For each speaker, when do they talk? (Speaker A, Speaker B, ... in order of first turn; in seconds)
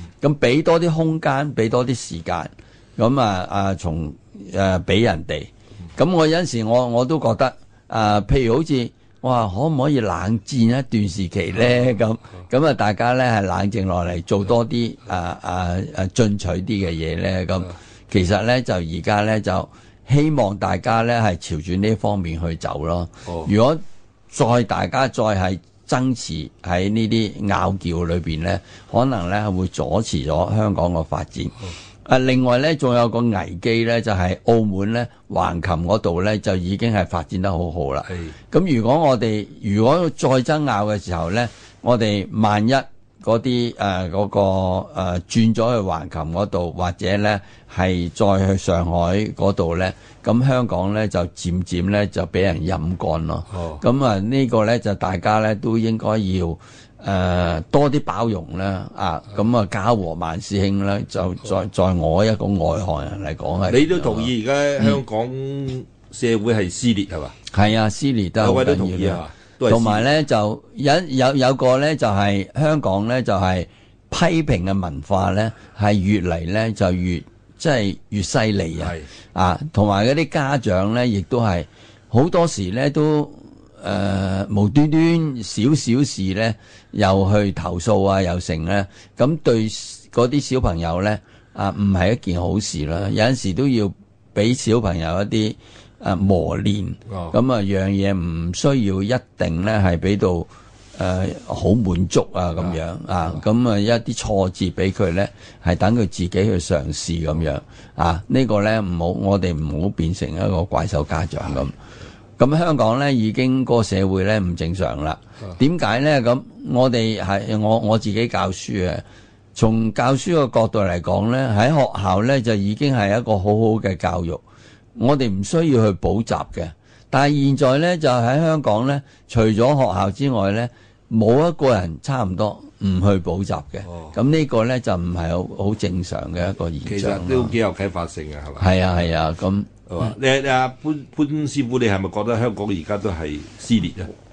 Speaker A: 0.2-65.0, 67.5-111.7, 112.4-119.0, 119.5-124.4, 125.0-137.5, 138.6-139.7
Speaker B: 38.1-38.3, 53.5-53.8, 63.7-67.3, 68.4-70.0, 78.8-79.1, 97.1-97.3, 133.8-134.1, 136.8-139.1, 139.9-144.1